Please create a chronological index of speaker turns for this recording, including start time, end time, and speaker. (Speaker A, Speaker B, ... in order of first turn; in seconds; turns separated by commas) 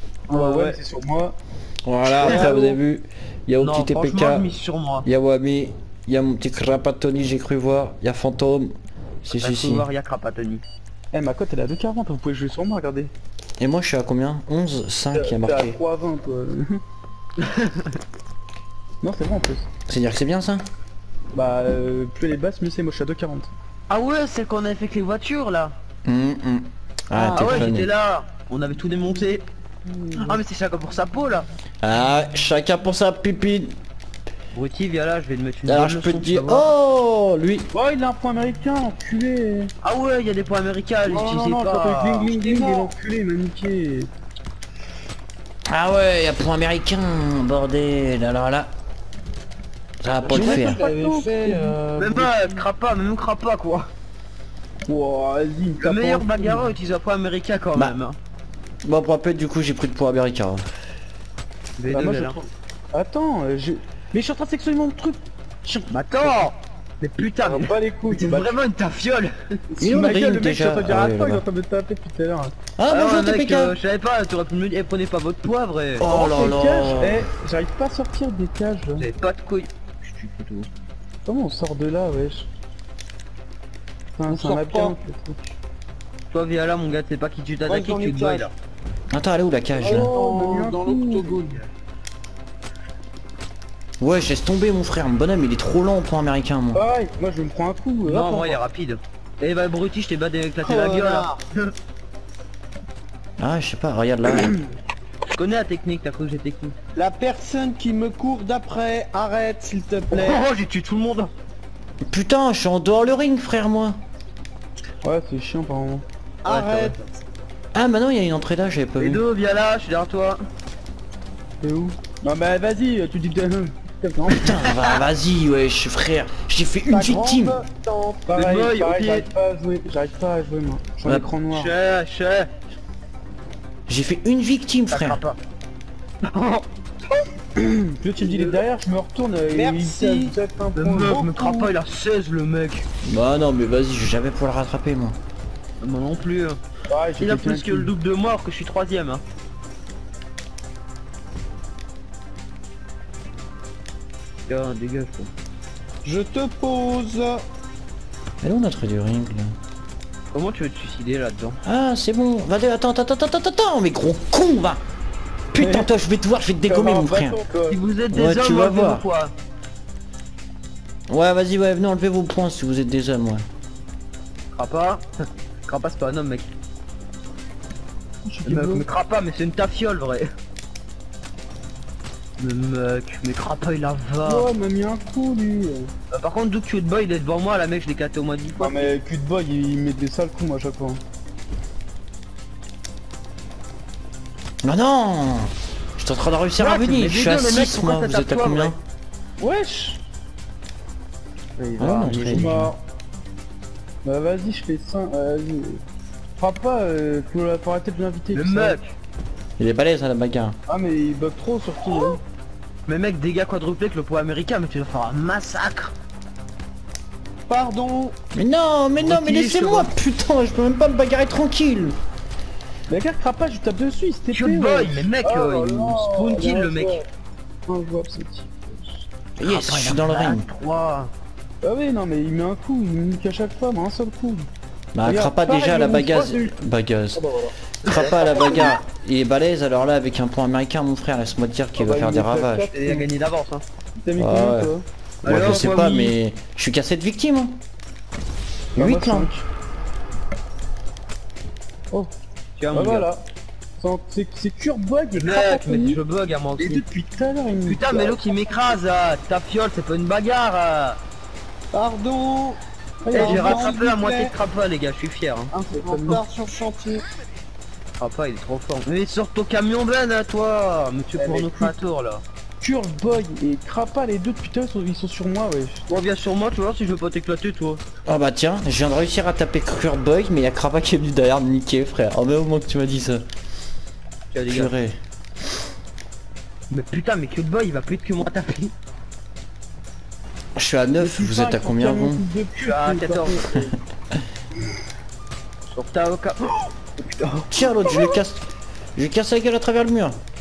Speaker A: 0.3-0.8, Speaker B: 0.3-1.4, Speaker C: 1.9-4.5, Speaker A: 2.2-2.7, Speaker B: 2.2-2.6, Speaker A: 3.6-5.1, Speaker C: 5.0-9.9, Speaker A: 9.3-10.6, Speaker B: 11.1-13.1, Speaker C: 13.6-15.8, Speaker B: 15.1-16.8, Speaker A: 17.4-18.0, Speaker B: 19.0-19.7, Speaker C: 19.9-20.7, Speaker B: 21.3-23.5, Speaker A: 23.9-25.8, Speaker C: 26.1-27.9, Speaker A: 27.2-29.5, Speaker A: 30.1-31.5, Speaker C: 31.8-33.8, Speaker A: 34.5-36.7, Speaker C: 35.7-37.7, Speaker B: 37.7-39.7, Speaker A: 39.8-42.3, Speaker B: 41.0-44.1, Speaker D: 42.2-42.9, Speaker C: 45.7-48.7, Speaker C: 50.0-50.8, Speaker D: 50.2-52.6, Speaker B: 50.3-51.8, Speaker A: 52.0-53.9, Speaker B: 54.9-56.8, Speaker A: 55.8-58.2, Speaker C: 58.8-60.6, Speaker A: 61.8-62.4, Speaker B: 61.9-66.5, Speaker A: 65.9-69.3, Speaker B: 67.4-68.6, Speaker B: 69.7-72.5, Speaker C: 69.8-71.4, Speaker C: 72.8-73.8, Speaker A: 72.9-76.1, Speaker C: 76.0-77.3, Speaker B: 76.1-79.1, Speaker A: 79.0-80.7, Speaker B: 81.2-82.5, Speaker B: 84.1-85.4, Speaker D: 84.3-85.0, Speaker A: 86.3-88.5, Speaker D: 87.7-88.5, Speaker C: 89.1-90.1, Speaker B: 89.8-91.4, Speaker D: 89.8-91.6, Speaker C: 94.0-96.8, Speaker B: 96.7-98.6, Speaker A: 98.0-101.7, Speaker D: 100.6-101.4, Speaker C: 103.4-104.6, Speaker A: 105.3-106.8, Speaker D: 107.0-110.4, Speaker A: 110.1-111.3, Speaker C: 112.1-114.0, Speaker B: 115.0-116.0, Speaker D: 116.4-117.0, Speaker A: 116.5-117.1, Speaker C: 117.7-119.2, Speaker A: 119.0-120.4, Speaker B: 121.6-124.6, Speaker C: 124.4-127.6, Speaker D: 126.9-128.3, Speaker B: 128.3-131.7, Speaker A: 128.3-129.2, Speaker A: 131.5-132.5, Speaker C: 133.9-135.2, Speaker A: 134.9-135.4, Speaker A: 136.3-136.6, Speaker B: 137.6-141.2, Speaker D: 139.5-140.4, Speaker A: 140.8-142.9, Speaker D: 141.0-141.7, Speaker C: 143.0-145.2, Speaker A: 145.8-146.6, Speaker B: 146.9-147.9, Speaker A: 147.2-149.2, Speaker A: 154.5-155.3, Speaker D: 156.0-157.4, Speaker C: 158.4-159.6, Speaker A: 160.3-161.6, Speaker C: 161.6-164.8, Speaker C: 165.5-167.4, Speaker B: 165.6-165.9, Speaker B: 166.7-167.8, Speaker A: 167.7-169.3, Speaker C: 168.1-169.1, Speaker C: 171.1-173.4, Speaker A: 174.5-175.1, Speaker A: 175.6-176.5, Speaker B: 178.2-178.8, Speaker A: 178.4-180.3, Speaker A: 182.4-184.5, Speaker B: 184.2-185.9, Speaker A: 186.1-188.9, Speaker B: 188.6-191.0, Speaker C: 194.6-198.8, Speaker A: 196.6-198.8, Speaker B: 199.4-200.0, Speaker A: 201.6-202.6, Speaker C: 201.8-202.6, Speaker B: 202.1-202.8, Speaker B: 204.0-205.8, Speaker B: 206.4-208.8, Speaker A: 208.3-208.9, Speaker C: 209.6-210.6, Speaker B: 210.7-212.2, Speaker A: 212.9-215.9, Speaker D: 217.5-218.2, Speaker C: 218.3-222.0, Speaker A: 219.0-219.9, Speaker B: 222.9-227.1, Speaker A: 224.3-227.0, Speaker B: 227.7-229.1, Speaker C: 229.4-230.5, Speaker A: 229.4-231.1, Speaker B: 231.6-234.5, Speaker C: 234.9-237.2, Speaker B: 235.0-236.5, Speaker B: 237.2-238.7, Speaker C: 237.8-242.7, Speaker A: 237.9-238.3, Speaker B: 241.8-243.1, Speaker A: 242.7-243.6, Speaker B: 244.0-246.0, Speaker C: 244.2-244.7, Speaker A: 245.2-246.1, Speaker C: 245.2-247.6, Speaker C: 248.8-249.3, Speaker B: 248.8-249.4, Speaker A: 252.6-253.1, Speaker B: 252.7-253.2, Speaker B: 253.8-256.0, Speaker A: 255.2-256.8, Speaker B: 256.6-258.4, Speaker A: 257.6-261.0, Speaker D: 261.7-262.6, Speaker B: 263.1-263.8, Speaker D: 263.1-264.3, Speaker A: 263.1-265.5, Speaker D: 265.5-267.1, Speaker B: 265.7-266.2, Speaker A: 268.0-272.2, Speaker B: 271.2-271.8, Speaker B: 272.6-275.9, Speaker A: 275.9-277.8, Speaker C: 278.1-283.2, Speaker A: 284.3-284.7, Speaker C: 284.5-285.0, Speaker A: 286.7-288.7, Speaker C: 290.6-292.2, Speaker B: 291.0-293.7, Speaker A: 292.6-293.5, Speaker A: 295.7-297.6, Speaker C: 297.5-298.4, Speaker C: 298.9-300.2